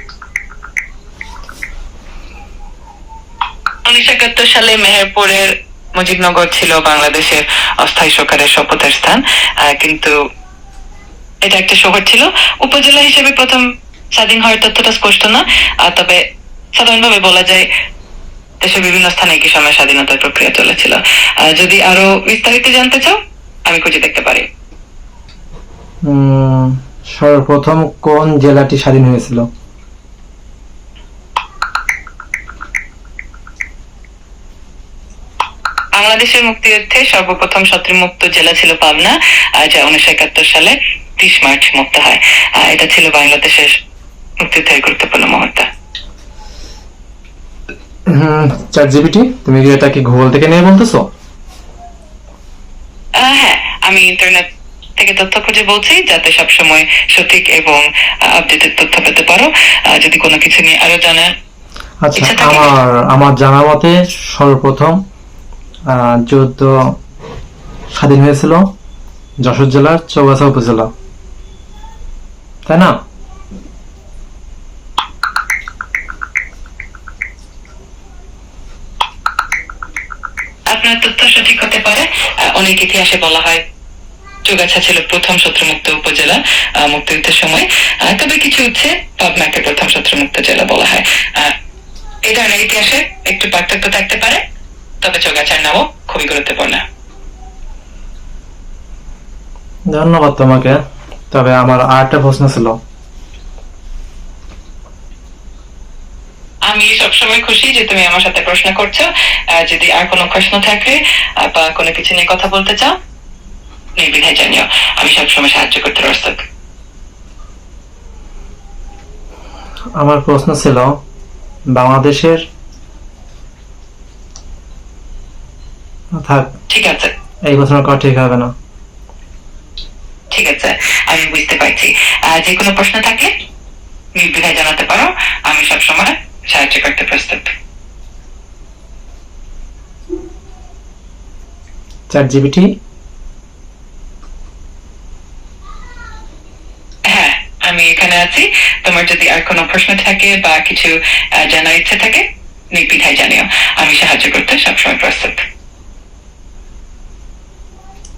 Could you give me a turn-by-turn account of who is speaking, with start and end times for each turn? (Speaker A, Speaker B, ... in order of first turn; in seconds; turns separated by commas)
Speaker A: 3.8-10.1, Speaker A: 11.4-16.2, Speaker A: 16.7-17.7, Speaker A: 18.6-24.5, Speaker B: 26.0-29.5, Speaker A: 35.9-43.8, Speaker A: 44.4-45.7, Speaker B: 48.0-51.1, Speaker A: 53.1-61.3, Speaker B: 62.0-65.0, Speaker A: 62.1-62.7, Speaker B: 65.9-67.0, Speaker B: 67.9-68.7, Speaker B: 69.4-70.9, Speaker B: 72.7-73.0, Speaker A: 80.7-83.6, Speaker A: 84.4-91.5, Speaker A: 92.2-94.4, Speaker A: 95.0-96.8, Speaker B: 99.9-102.8, Speaker A: 106.7-113.0, Speaker A: 114.0-116.4, Speaker B: 120.0-121.0, Speaker B: 121.7-122.5, Speaker B: 126.1-126.5, Speaker A: 126.7-127.1, Speaker B: 127.4-128.5, Speaker A: 130.3-133.3, Speaker A: 134.1-137.5, Speaker B: 142.1-142.8, Speaker A: 147.1-155.4